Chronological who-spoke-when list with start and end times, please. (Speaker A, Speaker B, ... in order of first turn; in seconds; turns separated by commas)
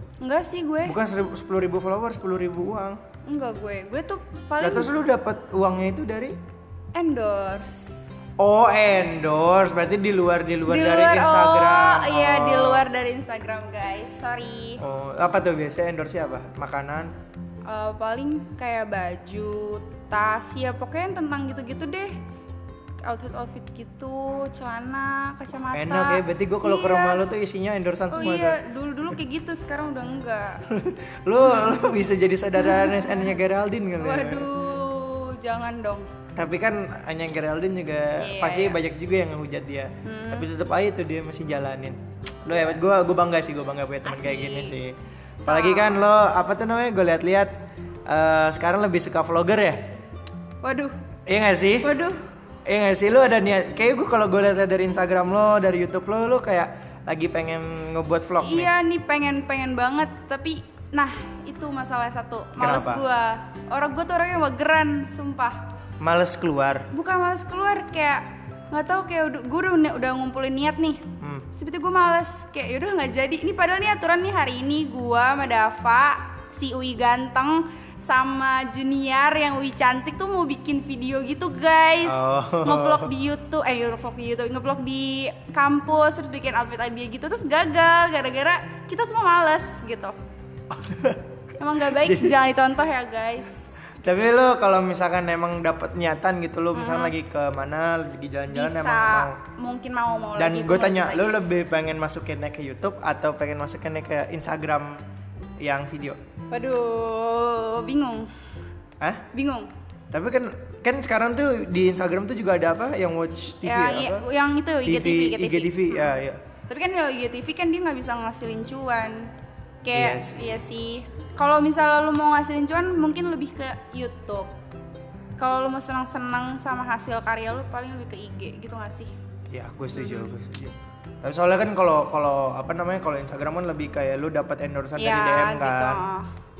Speaker A: 0.2-1.0, Speaker B: 0.8-3.0, Speaker A: 3.3-4.9, Speaker B: 4.6-6.4, Speaker A: 6.9-8.1, Speaker B: 8.4-12.9, Speaker A: 10.7-14.8, Speaker B: 14.8-17.1, Speaker A: 17.7-22.1, Speaker A: 23.1-27.2, Speaker B: 25.7-28.6, Speaker A: 28.1-30.6, Speaker B: 30.7-34.5, Speaker A: 31.5-31.8, Speaker A: 32.6-33.3, Speaker A: 34.0-36.1, Speaker B: 36.4-47.5, Speaker A: 38.2-38.8, Speaker A: 40.0-40.5, Speaker A: 44.0-44.8, Speaker A: 45.5-46.0, Speaker B: 48.1-49.8, Speaker A: 50.6-51.0, Speaker B: 51.3-52.0, Speaker A: 51.8-52.2, Speaker B: 52.7-58.7, Speaker A: 58.4-65.6, Speaker B: 62.6-63.0, Speaker B: 66.0-66.9, Speaker A: 66.9-90.2, Speaker B: 71.2-71.5, Speaker B: 82.0-83.1, Speaker B: 90.7-91.2, Speaker A: 91.6-93.5, Speaker B: 92.0-92.4, Speaker B: 94.0-99.3, Speaker A: 96.8-97.2, Speaker A: 98.5-101.4, Speaker B: 100.4-105.0, Speaker B: 105.6-106.2, Speaker A: 106.5-108.3, Speaker A: 109.3-109.7, Speaker B: 110.1-114.2, Speaker A: 113.6-116.2, Speaker B: 114.8-116.4, Speaker A: 116.7-119.3, Speaker A: 119.8-124.5, Speaker B: 119.9-120.6, Speaker A: 125.4-129.1, Speaker B: 129.5-136.0, Speaker A: 129.9-130.3, Speaker A: 135.0-136.3